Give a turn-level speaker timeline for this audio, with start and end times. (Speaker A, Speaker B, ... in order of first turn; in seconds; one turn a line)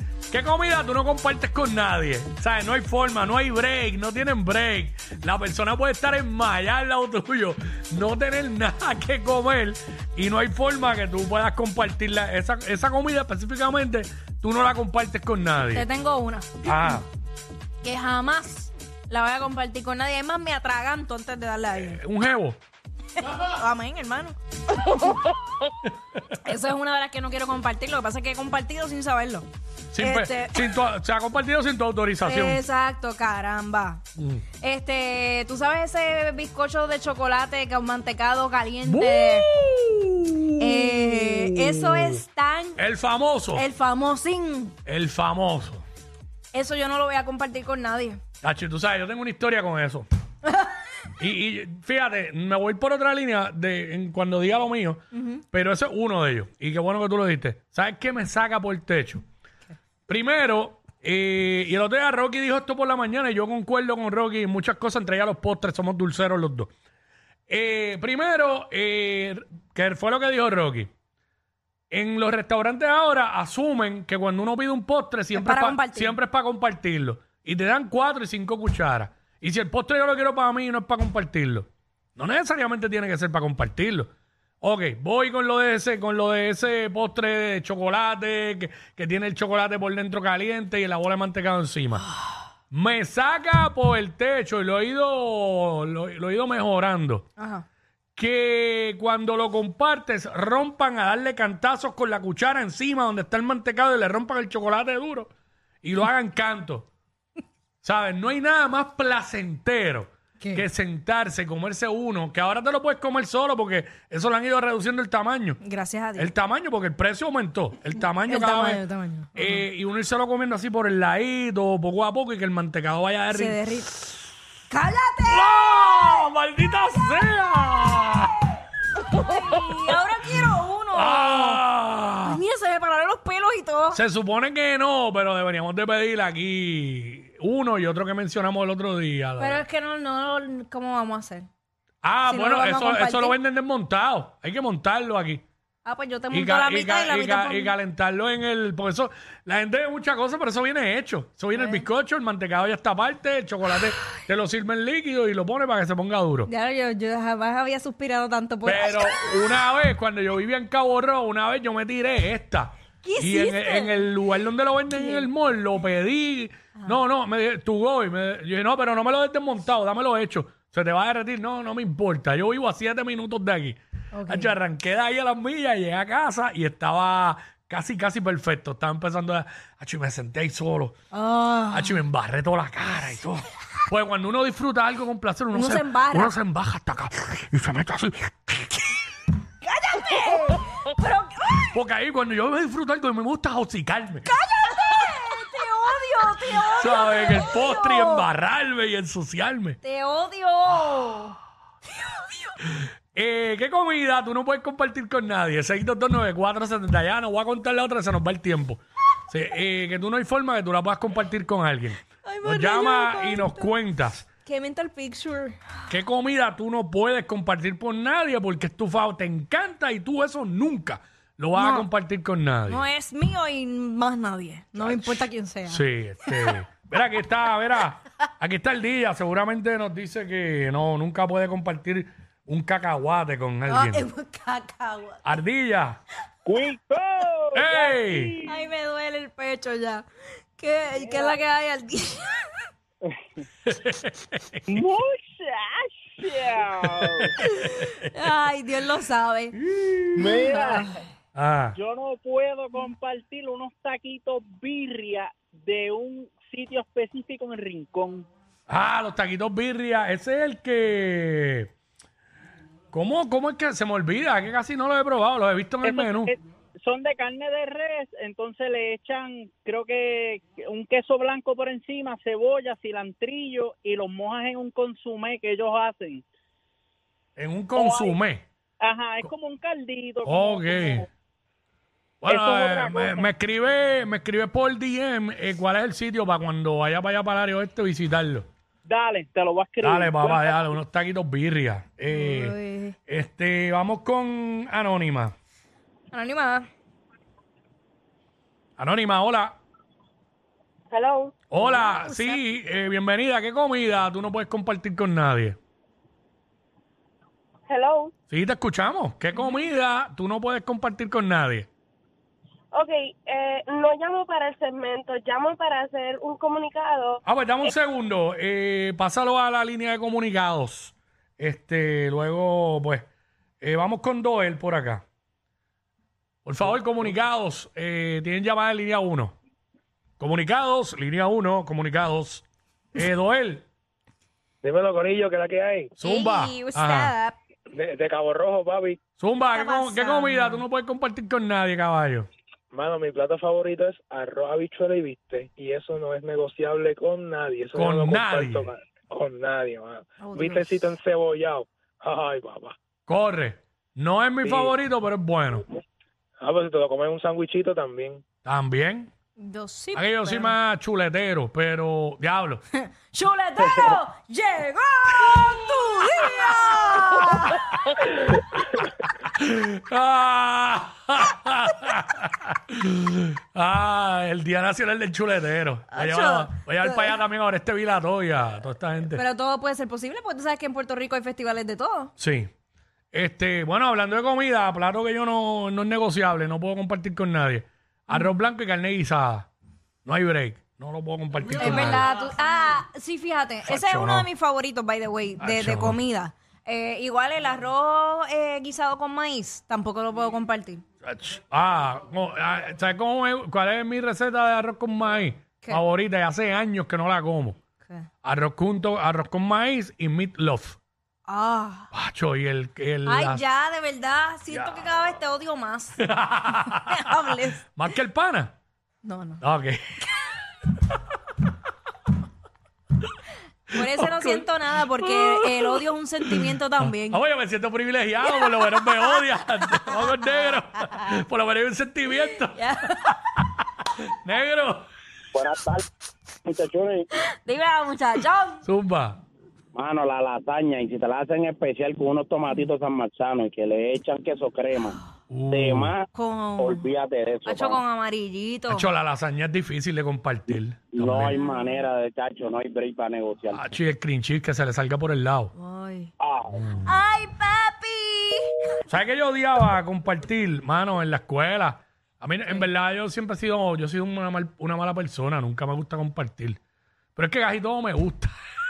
Speaker A: 0.3-15.9
Speaker B: 15.7-17.0
Speaker A: 16.6-17.1
Speaker B: 17.8-22.0
Speaker A: 21.8-22.6
Speaker B: 23.2-25.4
Speaker B: 26.4-29.5
Speaker A: 29.9-32.6
Speaker B: 30.0-30.8
Speaker B: 32.2-34.0
Speaker A: 34.2-34.5
Speaker B: 34.6-39.5
Speaker A: 38.8-42.2
Speaker B: 40.6-42.8
Speaker A: 42.8-43.6
Speaker B: 43.5-44.8
Speaker A: 44.9-45.8
Speaker B: 46.5-48.2
Speaker A: 48.4-50.1
Speaker A: 51.2-59.2
Speaker B: 55.1-55.4
Speaker A: 60.1-66.7
Speaker A: 67.5-70.9
Speaker A: 71.9-84.1
Speaker B: 75.3-76.2
Speaker A: 84.6-92.1
Speaker A: 92.7-97.3
Speaker B: 97.4-97.7
Speaker A: 98.2-105.3
Speaker A: 105.8-106.9
Speaker A: 107.8-115.6
Speaker B: 115.6-116.3
Speaker A: 116.2-118.8
Speaker B: 118.1-119.6
Speaker A: 119.3-123.6
Speaker B: 123.3-124.0
Speaker B: 124.7-126.3
Speaker A: 125.3-128.4
Speaker B: 129.0-131.6
Speaker A: 129.3-129.7
Speaker A: 130.9-132.4
Speaker B: 132.2-134.0
Speaker A: 133.9-139.6
Speaker B: 139.4-141.5
Speaker A: 142.0-145.4
Speaker B: 142.3-143.4
Speaker B: 145.8-147.8
Speaker A: 146.3-156.5
Speaker B: 151.5-151.8
Speaker B: 156.5-159.6
Speaker A: 158.7-180.9
Speaker B: 163.0-164.2
Speaker B: 164.9-165.3
Speaker B: 174.1-174.5
Speaker B: 181.1-182.0
Speaker A: 181.7-189.0
Speaker B: 185.5-186.3
Speaker B: 189.6-191.7
Speaker A: 191.7-194.3
Speaker B: 194.2-198.2
Speaker A: 196.8-199.8
Speaker B: 199.8-201.4
Speaker A: 203.1-214.3
Speaker B: 212.2-213.7
Speaker B: 214.4-215.6
Speaker A: 215.9-222.8
Speaker B: 221.6-221.9
Speaker B: 222.7-226.6
Speaker A: 224.8-234.1
Speaker B: 233.7-235.3
Speaker A: 235.2-236.0
Speaker C: 236.5-238.6
Speaker A: 237.6-238.4
Speaker B: 238.4-240.1
Speaker B: 240.6-242.7
Speaker A: 243.7-244.7
Speaker C: 244.7-247.4
Speaker A: 246.8-248.0
Speaker B: 247.4-249.6
Speaker A: 249.7-250.5
Speaker C: 250.2-250.9
Speaker B: 250.3-251.0
Speaker A: 251.3-251.8
Speaker C: 251.7-258.3
Speaker A: 258.7-261.7
Speaker A: 262.9-266.4
Speaker C: 265.8-276.2
Speaker A: 277.4-278.5
Speaker C: 277.8-278.2
Speaker C: 278.8-281.1
Speaker A: 280.2-281.1
Speaker A: 282.2-288.5
Speaker C: 282.3-283.3
Speaker C: 288.9-290.6
Speaker A: 289.8-295.3
Speaker B: 292.1-293.0
Speaker B: 296.1-296.7
Speaker A: 298.8-299.6
Speaker D: 300.9-301.3
Speaker A: 301.5-305.6
Speaker B: 301.6-302.4
Speaker D: 307.7-308.1
Speaker A: 308.3-311.7
Speaker D: 312.7-317.2
Speaker A: 317.2-323.1
Speaker A: 323.6-325.0
Speaker A: 326.4-329.4
Speaker A: 330.2-333.7
Speaker E: 334.6-335.9
Speaker B: 336.0-337.4
Speaker A: 336.0-337.1
Speaker E: 337.7-339.0
Speaker A: 339.2-342.3
Speaker B: 339.5-340.6
Speaker E: 342.7-352.8
Speaker A: 347.8-348.7
Speaker B: 350.2-350.8
Speaker A: 353.1-355.6
Speaker E: 354.4-354.8
Speaker E: 356.4-358.2
Speaker A: 358.4-359.1
Speaker B: 359.4-360.6
Speaker A: 359.9-362.6
Speaker B: 362.7-367.9
Speaker A: 369.3-379.2
Speaker B: 375.9-377.1
Speaker B: 379.1-382.1
Speaker A: 382.2-382.5
Speaker A: 383.1-389.5
Speaker A: 390.1-392.1
Speaker B: 391.6-400.8
Speaker A: 393.6-394.3
Speaker A: 395.4-396.0
Speaker A: 401.0-407.6
Speaker A: 408.2-410.8
Speaker B: 411.3-411.9
Speaker A: 411.9-413.4
Speaker B: 413.1-417.6
Speaker A: 414.5-414.9
Speaker A: 416.0-417.0
Speaker A: 417.7-418.5
Speaker B: 419.0-419.4
Speaker A: 419.4-420.0
Speaker B: 423.7-427.2
Speaker A: 423.8-424.5
Speaker A: 425.0-433.2
Speaker B: 428.3-430.4
Speaker B: 432.5-433.2
Speaker A: 434.1-434.9
Speaker F: 435.3-435.8
Speaker F: 436.4-437.1
Speaker B: 437.1-438.6
Speaker A: 438.6-439.2
Speaker F: 439.7-445.0
Speaker A: 445.3-445.9
Speaker F: 445.5-446.1
Speaker B: 446.1-446.9
Speaker F: 446.6-447.8
Speaker B: 447.5-448.9
Speaker A: 448.7-451.4
Speaker F: 450.9-453.6
Speaker B: 451.4-451.8
Speaker A: 453.5-455.5
Speaker B: 455.6-456.1
Speaker F: 456.2-456.7
Speaker A: 456.6-456.9
Speaker B: 456.8-458.5
Speaker A: 458.9-466.6
Speaker A: 467.2-468.4